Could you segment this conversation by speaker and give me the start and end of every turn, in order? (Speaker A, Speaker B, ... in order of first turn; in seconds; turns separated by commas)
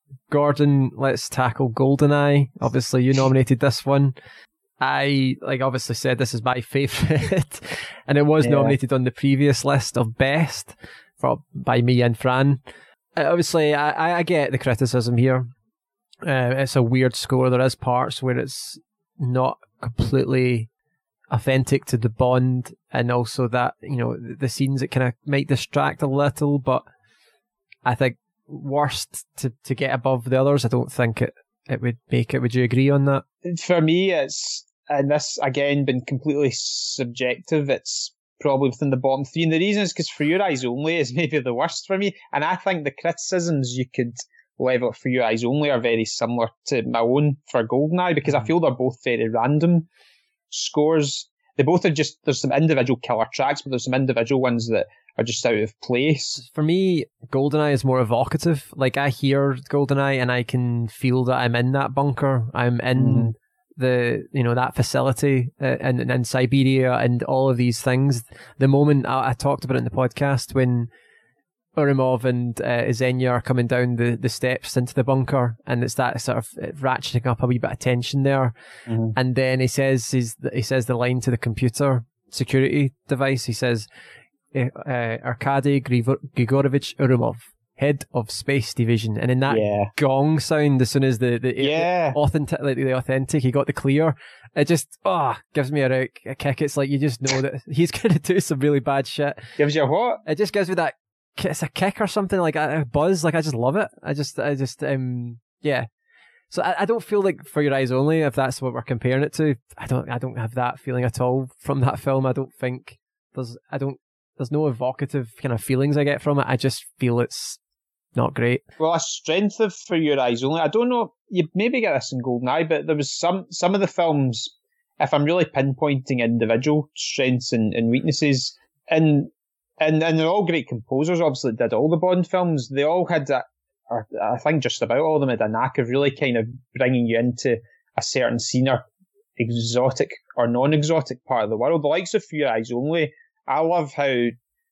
Speaker A: 0.3-4.1, Speaker A: 4.8-12.6, Speaker A: 13.2-15.5, Speaker A: 16.2-20.7, Speaker A: 21.3-26.8, Speaker A: 27.8-33.2, Speaker B: 33.4-49.9, Speaker B: 50.5-56.4, Speaker A: 56.4-70.9, Speaker B: 63.0-63.3, Speaker A: 71.8-78.5, Speaker B: 78.9-79.1, Speaker A: 79.1-83.9, Speaker A: 84.5-99.5, Speaker B: 89.5-89.9, Speaker B: 91.6-92.2, Speaker B: 99.6-100.2, Speaker A: 100.2-105.9, Speaker A: 106.5-117.6, Speaker A: 118.2-118.6, Speaker B: 118.8-138.8, Speaker B: 139.4-144.3